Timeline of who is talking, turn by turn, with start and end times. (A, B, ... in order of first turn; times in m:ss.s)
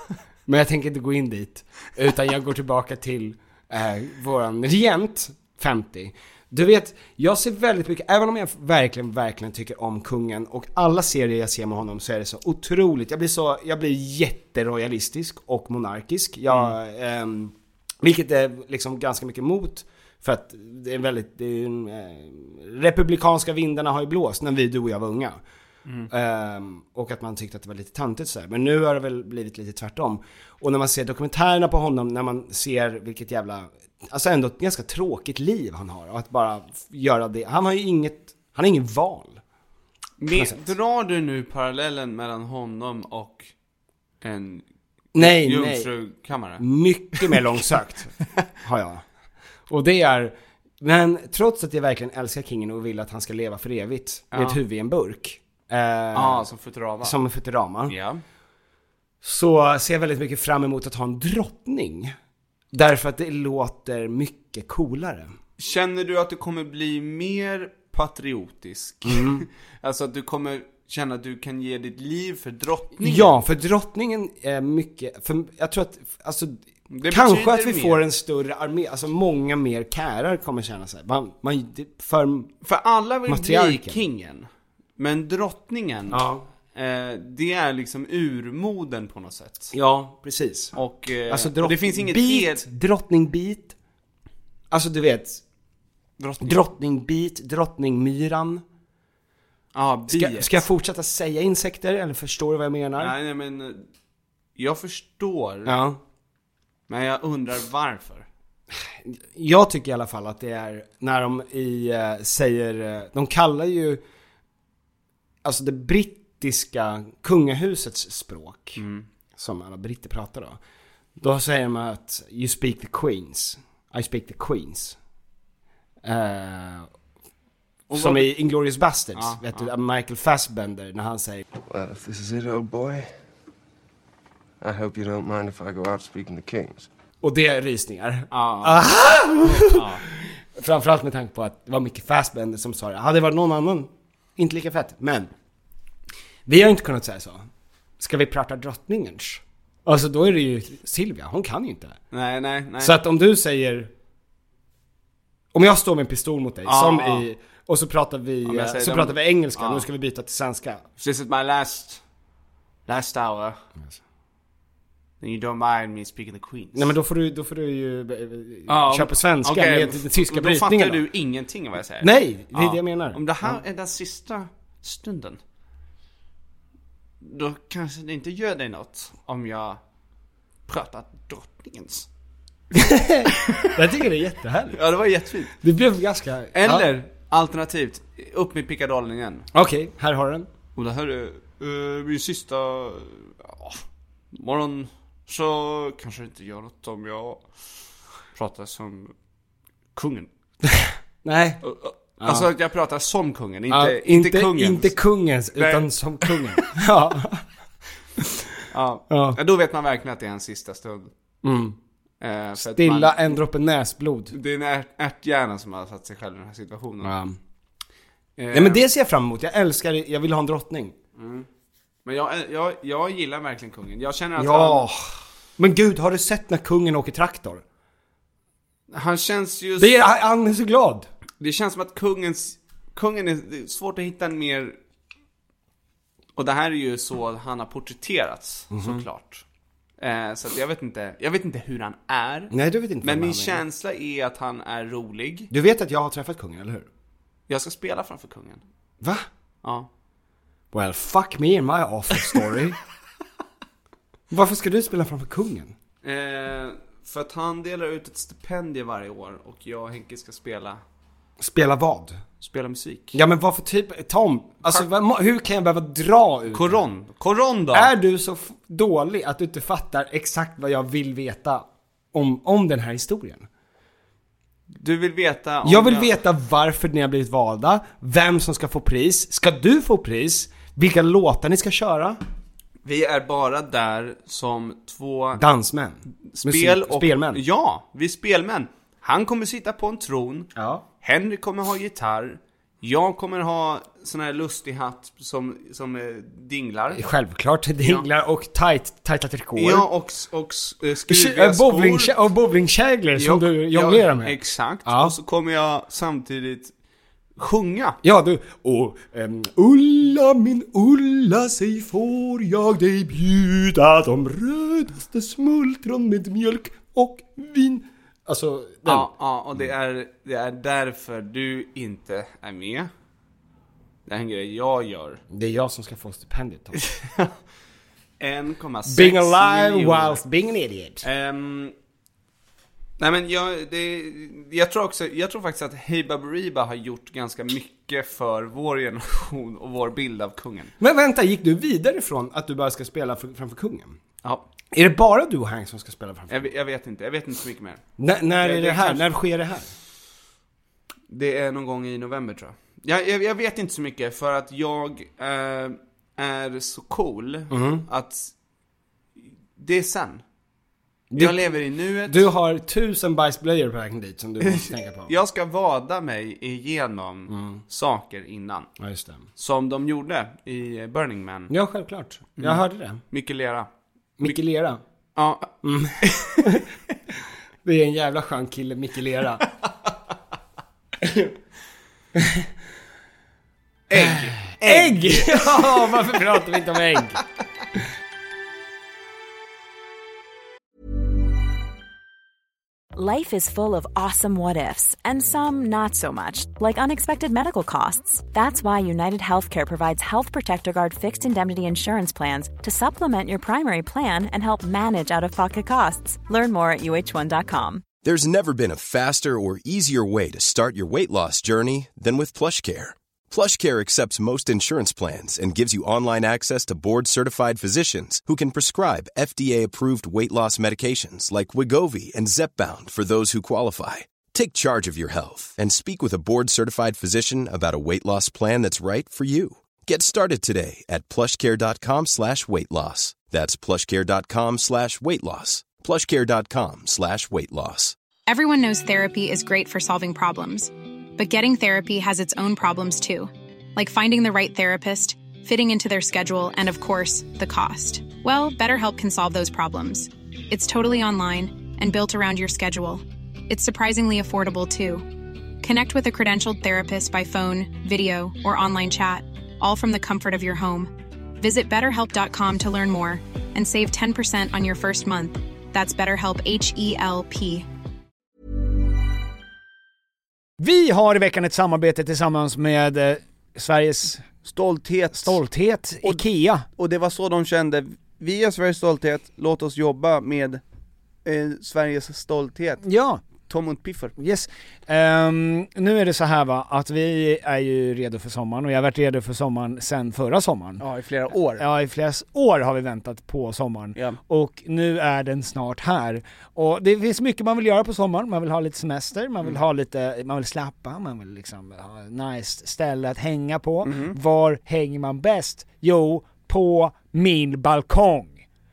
0:00.5-0:25.4 A
0:16.5-0:16.7 B
0:26.1-0:39.4 A
0:40.2-0:43.5 B
0:40.3-0:40.7 A
0:44.2-0:46.6 B
0:45.1-0:45.9 A
0:46.6-0:49.0 A
0:49.7-0:56.5 A
0:54.3-0:54.6 B
0:56.1-0:57.2 B
0:57.0-0:57.9 A
0:57.9-0:58.2 B
0:59.2-1:02.2 A
1:02.7-1:05.3 A
1:05.6-1:13.3 B
1:09.0-1:09.4 A
1:13.0-1:22.5 A
1:16.9-1:18.0 B
1:22.6-1:29.7 B
1:23.2-1:24.0 A
1:26.1-1:26.4 A
1:29.7-1:30.7 A
1:30.7-1:32.6 B
1:31.3-1:33.7 A
1:34.7-1:35.4 A
1:36.2-1:36.6 B
1:36.4-1:38.6 A
1:39.7-1:40.6 B
1:40.1-1:43.2 A
1:43.0-1:43.9 B
1:44.6-1:45.8 B
1:45.6-1:46.0 A
1:46.9-1:48.3 B
1:48.7-1:54.0 A
1:55.4-1:58.8 A
1:58.8-1:59.1 B
1:59.4-2:00.6 A
2:01.2-2:05.0 A
2:06.0-2:06.9 A
2:07.9-2:08.3 B
2:07.9-2:11.4 A
2:09.1-2:09.7 B
2:11.6-2:13.1 C
2:14.6-2:16.9 C
2:17.2-2:25.3 A
2:18.3-2:18.8 B
2:19.4-2:20.0 B
2:26.5-2:27.4 A
2:28.0-2:32.0 A
2:32.1-2:33.0 B
2:32.8-2:33.9 A
2:35.5-2:40.8 A
2:36.6-2:37.3 B
2:38.4-2:39.9 B
2:41.0-2:42.0 B
2:42.9-2:43.6 B
2:45.2-2:46.9 B
2:46.7-2:51.0 A
2:48.7-2:55.4 B
2:52.0-2:53.6 A
2:57.2-2:59.8 B
3:00.7-3:02.1 B
3:02.7-3:04.8 A
3:04.7-3:05.6 B
3:05.5-3:06.9 A
3:06.5-3:09.5 B
3:09.5-3:10.5 A
3:10.8-3:13.8 B
3:14.3-3:17.4 B
3:18.3-3:19.1 B
3:19.9-3:20.3 B
3:20.6-3:21.6 A
3:21.6-3:24.9 B
3:22.2-3:22.5 A
3:23.7-3:27.4 A
3:25.5-3:26.6 B
3:28.2-3:28.5 A
3:28.7-3:31.1 B
3:29.1-3:29.4 A
3:31.4-3:31.8 A
3:32.2-3:33.4 B
3:32.6-3:34.3 A
3:34.3-3:37.1 B
3:37.0-3:37.4 A
3:38.4-3:38.8 B
3:38.5-3:40.9 A
3:41.2-3:41.5 B
3:42.0-3:44.9 B
3:44.4-3:47.6 A
3:48.9-3:50.0 B
3:49.8-3:51.1 A
3:51.4-3:54.8 B
3:56.4-3:59.4 B
3:58.7-3:59.0 A
4:00.0-4:05.5 B
4:02.5-4:03.6 A
4:05.5-4:06.9 A
4:07.5-4:08.6 B
4:09.0-4:09.3 A
4:09.6-4:09.9 B
4:10.7-4:12.8 A
4:14.3-4:15.7 A
4:16.0-4:20.8 B
4:21.4-4:22.2 A
4:22.4-4:23.2 B
4:23.1-4:26.8 A
4:26.5-4:27.9 B
4:27.7-4:33.5 A
4:34.7-4:36.2 B
4:35.6-4:42.2 A
4:42.8-4:45.4 B
4:45.4-4:47.4 A
4:46.3-4:50.5 B
4:50.6-4:50.8 A
4:51.0-4:57.0 B
4:56.9-4:59.9 A
4:59.6-5:02.1 B
5:01.1-5:05.1 A
5:03.2-5:06.7 B
5:07.4-5:08.0 B
5:08.0-5:19.1 A
5:18.8-5:22.9 B
5:24.0-5:25.2 B
5:25.3-5:26.8 A
5:26.8-5:27.3 B
5:28.2-5:30.2 B
5:28.8-5:31.0 A
5:31.0-5:31.7 B
5:33.0-5:40.7 B
5:40.8-5:44.0 A
5:44.7-5:46.5 A
5:46.3-5:47.8 B
5:48.0-5:49.7 A
5:48.4-5:49.1 B
5:51.1-5:58.3 B
5:57.5-5:57.9 A
5:59.6-6:00.2 B
6:01.1-6:01.4 A
6:01.2-6:02.3 B
6:02.0-6:05.1 A
6:04.4-6:08.7 B
6:07.3-6:07.6 A
6:08.8-6:09.2 A
6:09.4-6:11.5 B
6:11.5-6:13.0 A
6:12.4-6:13.7 B
6:14.2-6:14.8 A
6:15.1-6:16.6 B
6:15.6-6:16.6 A
6:17.6-6:19.4 A
6:21.0-6:21.3 A
6:22.1-6:22.5 A
6:23.9-6:26.2 B
6:23.9-6:27.2 A
6:32.9-6:47.8 D
6:48.0-7:18.0 E
7:18.3-7:35.0 F
7:35.6-7:47.6 F
7:50.6-7:54.4 G
7:54.4-7:55.3 H
7:55.1-7:56.6 G
7:56.9-7:57.6 B
7:58.2-7:58.7 H
7:58.7-8:00.1 B
7:59.2-8:00.4 H
8:01.2-8:02.6 B
8:02.8-8:03.2 G
8:03.5-8:04.1 B
8:04.2-8:10.8 G
8:10.8-8:11.6 H
8:11.6-8:28.4 G